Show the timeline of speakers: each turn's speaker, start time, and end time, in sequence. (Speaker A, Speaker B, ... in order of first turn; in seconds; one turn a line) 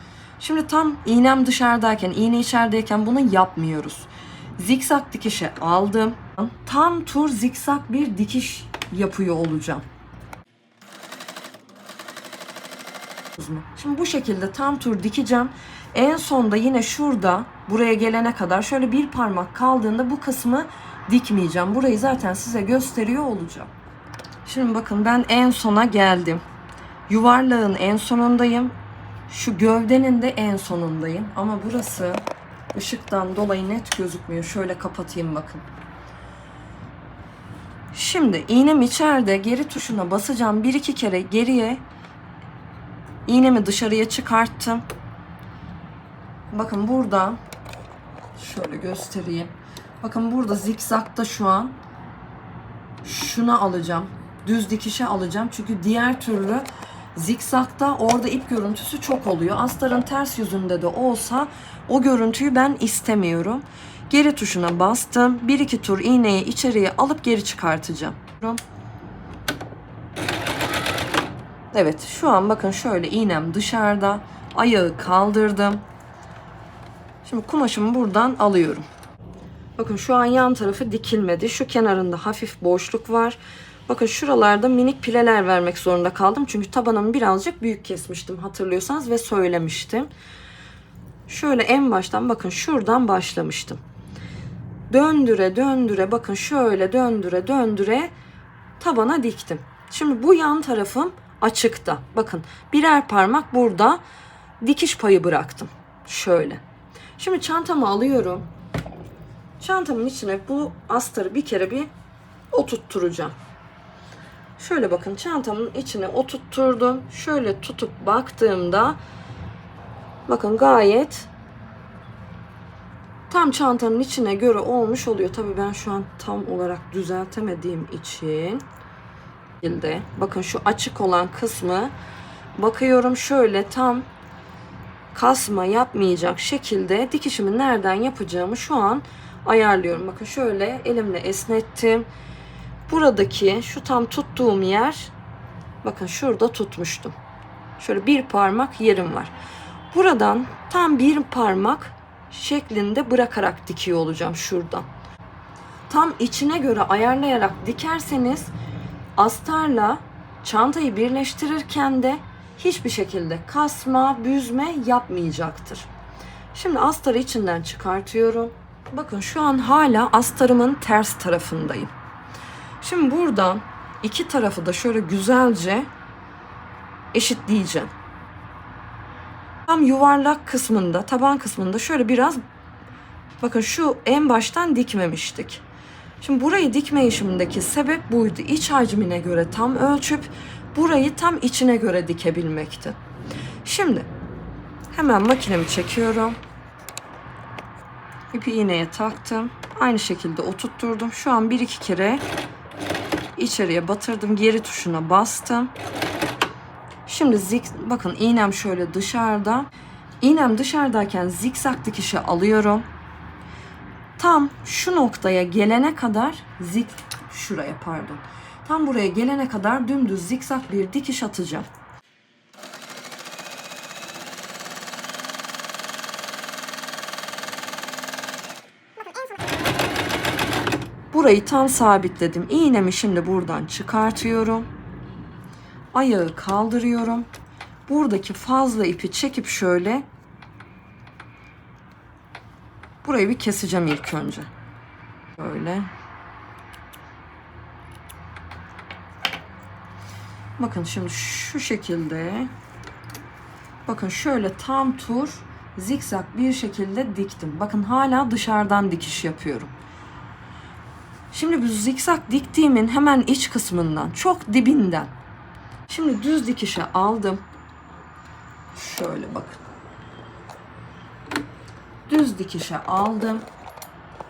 Speaker A: 0.4-9.9
Speaker A: 13.4-23.7
Speaker A: 24.4-26.4
Speaker A: 27.1-28.7
Speaker A: 29.3-32.2
Speaker A: 32.7-35.7
Speaker A: 37.9-41.8
Speaker A: 43.3-44.8
Speaker A: 46.5-47.4
Speaker A: 48.4-51.8
Speaker A: 53.0-68.6
Speaker A: 71.7-75.8
Speaker A: 77.2-78.9
Speaker A: 79.8-90.1
Speaker A: 91.3-93.8
Speaker A: 94.9-98.1
Speaker A: 98.8-104.0
Speaker A: 104.6-106.6
Speaker A: 107.2-108.5
Speaker A: 109.6-111.9
Speaker A: 112.5-113.4
Speaker A: 114.6-119.0
Speaker A: 120.3-121.3
Speaker A: 123.3-128.6
Speaker A: 129.6-131.9
Speaker A: 132.6-134.1
Speaker A: 135.1-142.1
Speaker A: 142.9-145.1
Speaker A: 145.8-147.2
Speaker A: 147.8-149.3
Speaker A: 149.9-154.9
Speaker A: 155.9-158.5
Speaker A: 159.2-165.9
Speaker A: 166.5-171.9
Speaker A: 172.8-175.9
Speaker A: 177.1-177.9
Speaker A: 179.7-182.4
Speaker A: 183.4-185.6
Speaker A: 186.2-193.0
Speaker A: 193.7-194.1
Speaker A: 194.9-196.4
Speaker A: 198.3-202.2
Speaker A: 203.4-205.7
Speaker A: 207.1-209.7
Speaker A: 210.2-212.9
Speaker A: 214.2-221.7
Speaker A: 231.1-234.7
Speaker A: 235.9-237.3
Speaker A: 237.9-240.1
Speaker A: 243.0-244.5
Speaker A: 245.4-245.9
Speaker A: 250.6-252.5
Speaker A: 253.9-259.7
Speaker A: 261.3-265.1
Speaker A: 265.9-267.4
Speaker A: 268.7-269.6
Speaker A: 272.1-273.4